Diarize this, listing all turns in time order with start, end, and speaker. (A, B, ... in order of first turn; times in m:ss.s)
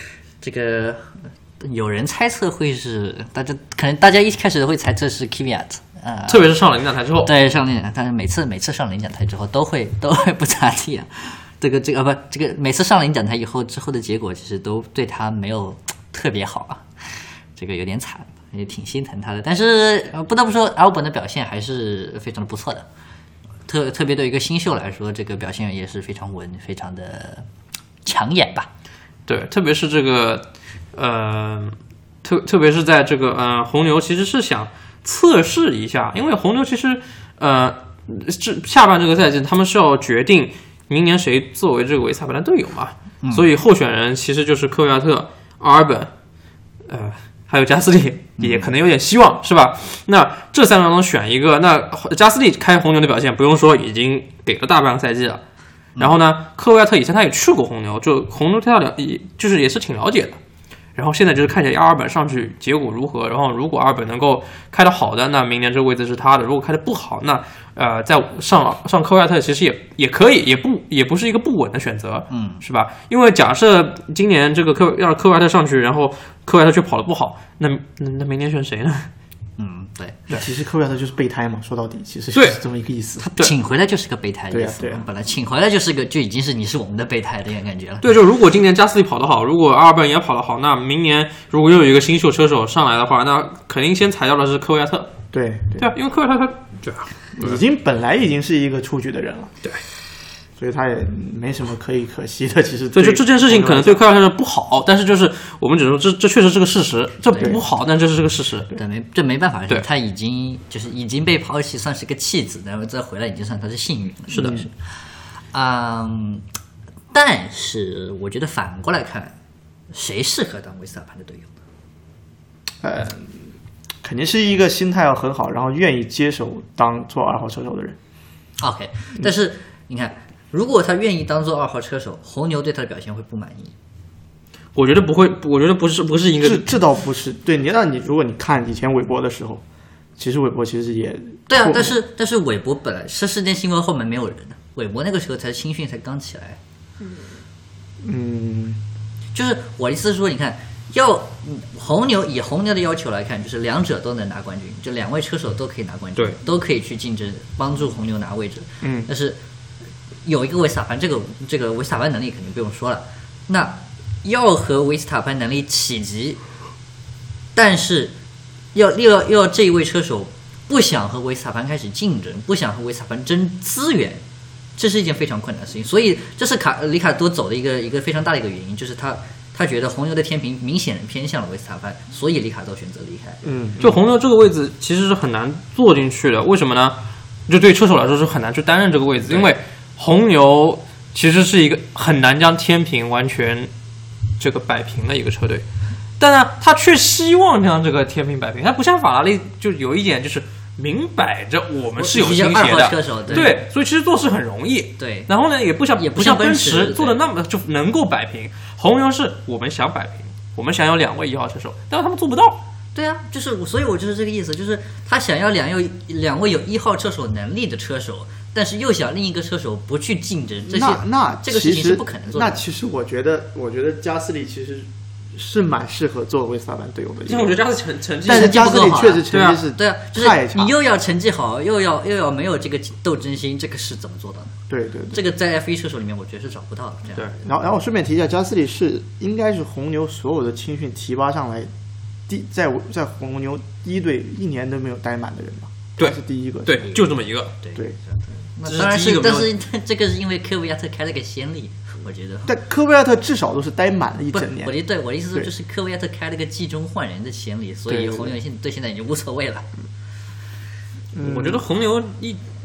0:00.4-0:06.5 A
0:06.3-0:07.3 B
0:07.2-0:22.9 A
0:23.7-0:27.5 A
0:28.0-0:28.7 A
0:29.3-0:46.1 B
0:43.2-0:43.5 A
0:46.9-0:55.4 B
0:48.4-0:48.7 A
0:56.0-1:00.4 B
1:01.0-1:19.1 B
1:12.3-1:12.6 A
1:19.6-1:20.3 A
1:20.3-1:23.2 C
1:22.3-1:22.6 B
1:23.2-1:28.1 A
1:24.5-1:25.0 C
1:28.0-1:35.1 B
1:35.3-1:35.9 C
1:35.8-1:37.6 B
1:37.4-1:39.5 C
1:40.6-1:44.0 C
1:42.9-1:48.7 B
1:47.3-1:47.6 A
1:47.4-1:47.6 C
1:48.7-1:54.7 A
1:54.3-1:54.6 B
1:54.4-1:54.7 C
1:55.5-1:56.4 A
1:57.1-1:59.3 A
1:59.9-2:01.6 A
2:02.8-2:03.5 C
2:04.0-2:08.0 C
2:08.6-2:13.7 A
2:14.8-2:16.8 B
2:16.4-2:19.6 C
2:20.2-2:22.0 C
2:21.5-2:26.6 A
2:28.0-2:28.8 C
2:29.3-2:39.4 A
2:38.8-2:39.1 C
2:40.2-2:46.4 A
2:47.6-2:48.1 A
2:48.7-2:54.2 A
2:54.8-3:03.4 A
3:03.4-3:04.0 C
3:03.8-3:13.7 B
3:14.4-3:15.6 B
3:16.2-3:32.6 B
3:22.0-3:23.6 A
3:25.0-3:25.3 A
3:26.0-3:27.2 A
3:32.9-3:42.6 A
3:40.7-3:47.6 C
3:47.2-3:49.6 B
3:48.2-3:50.8 C
3:48.2-3:54.6 A
3:54.7-3:55.2 C
3:55.1-3:57.4 A
3:57.4-4:01.7 C
4:02.3-4:06.9 C
4:06.0-4:07.5 B
4:07.6-4:12.5 A
4:08.6-4:09.5 B
4:12.4-4:14.8 C
4:14.3-4:19.7 A
4:17.9-4:18.4 C
4:21.1-4:21.6 C
4:21.2-4:22.4 B